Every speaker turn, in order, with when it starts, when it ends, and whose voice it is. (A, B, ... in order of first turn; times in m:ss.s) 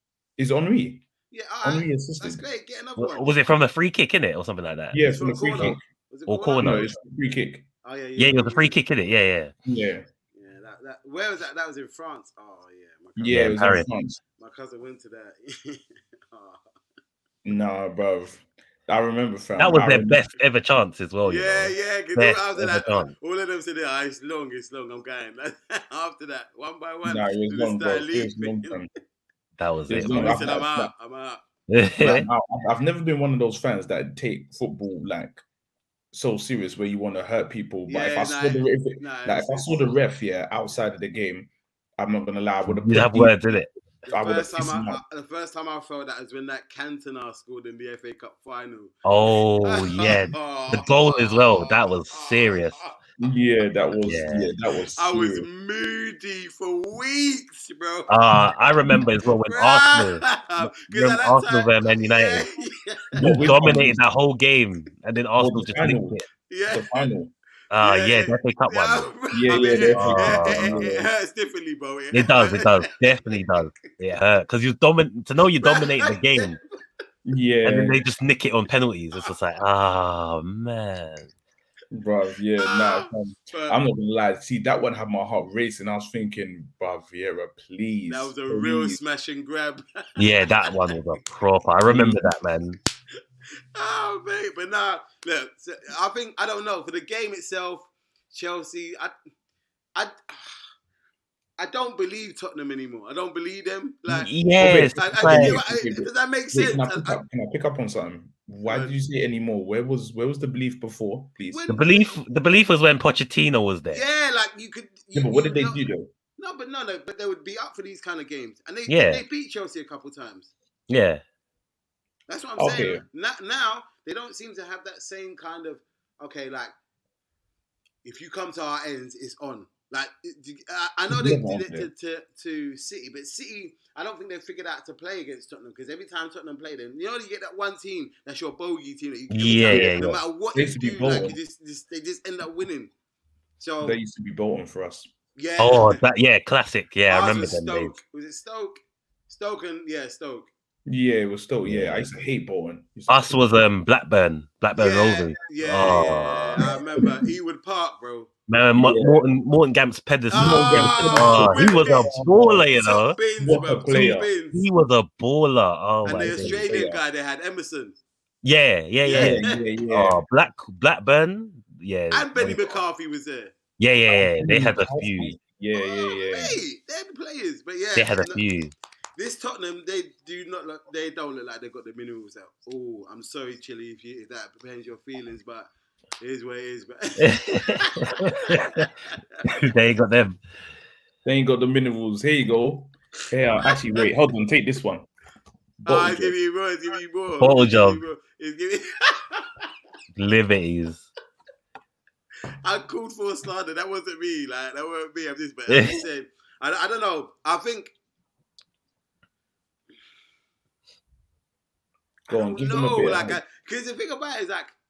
0:00.4-0:01.1 A
0:01.3-0:03.3 B
0:01.6-0:02.4 A
0:03.0-0:05.0 C
0:04.9-0:05.8 A
0:05.0-0:06.9 B
0:06.3-0:06.8 C
0:06.6-0:07.7 A
0:07.8-0:08.8 B
0:08.2-0:09.5 C
0:09.6-0:10.1 A
0:10.3-0:13.6 B
0:13.2-0:14.2 A
0:13.3-0:13.9 C
0:14.4-0:16.6 B
0:17.4-0:20.2 A
0:19.6-0:23.1 C
0:21.2-0:28.8 B
0:27.0-0:28.9 A
0:29.6-0:30.4 C
0:29.9-0:30.9 A
0:30.0-0:31.4 B
0:31.7-0:32.3 C
0:32.0-0:35.4 A
0:36.1-0:43.4 A
0:37.9-0:39.9 B
0:42.7-0:43.7 C
0:44.1-0:49.0 B
0:44.1-0:45.0 A
0:49.0-0:52.8 C
0:49.6-0:53.0 B
0:53.2-0:55.5 A
0:54.1-0:54.5 C
0:55.0-0:58.1 B
0:58.1-1:02.4 C
0:59.5-1:03.4 B
1:03.2-1:04.1 A
1:03.2-1:06.2 C
1:05.4-1:07.3 A
1:06.5-1:06.9 B
1:07.7-1:09.1 C
1:07.8-1:13.7 B
1:09.3-1:11.1 A
1:09.8-1:10.9 C
1:12.1-1:16.6 C
1:15.6-1:16.8 B
1:17.2-1:18.0 A
1:17.6-1:21.3 C
1:21.9-1:29.0 A
1:22.6-1:23.8 B
1:28.1-1:30.7 B
1:30.2-1:32.8 C
1:31.9-1:32.2 A
1:33.8-1:39.1 B
1:40.0-1:40.5 B
1:41.6-1:44.3 B
1:44.1-1:45.6 C
1:44.6-1:51.7 A
1:45.0-1:47.2 B
1:48.7-1:48.9 B
1:51.5-1:52.2 B
1:51.7-1:54.0 C
1:53.9-1:55.8 B
1:55.1-1:56.1 A
1:56.4-2:00.5 B
1:58.9-1:59.2 C
2:00.9-2:01.2 C
2:02.3-2:06.7 B
2:02.6-2:03.0 A
2:08.0-2:22.9 B
2:11.1-2:11.9 A
2:19.3-2:20.2 C
2:19.7-2:21.4 A
2:23.6-2:24.0 B
2:23.8-2:25.1 A
2:25.4-2:26.0 B
2:25.6-2:28.0 C
2:27.1-2:28.8 B
2:29.3-2:30.5 B
2:30.9-2:33.5 A
2:31.6-2:32.0 C
2:33.1-2:36.7 C
2:34.8-2:38.3 B
2:38.5-2:43.2 C
2:38.8-2:39.2 A
2:40.3-2:42.2 B
2:40.3-2:42.7 A
2:42.8-2:44.6 B
2:43.4-2:44.3 A
2:44.5-2:46.7 C
2:46.0-2:48.0 B
2:46.2-2:47.0 A
2:48.4-2:52.6 C
2:49.0-2:49.5 B
2:49.1-2:50.2 A
2:52.1-2:53.6 B
2:52.4-2:52.7 A
2:53.8-2:55.3 C
2:54.1-2:56.6 A
2:55.7-2:58.4 B
2:58.0-2:58.7 C
2:59.2-3:05.7 B
3:06.2-3:09.2 B
3:07.2-3:08.9 C
3:09.5-3:10.4 C
3:11.2-3:15.1 A
3:13.6-3:14.0 B
3:15.8-3:16.4 A
3:15.8-3:19.7 B
3:17.4-3:18.0 C
3:20.2-3:21.1 C
3:22.6-3:27.9 B
3:25.7-3:26.0 C
3:32.3-3:33.4 A
3:32.3-3:34.8 B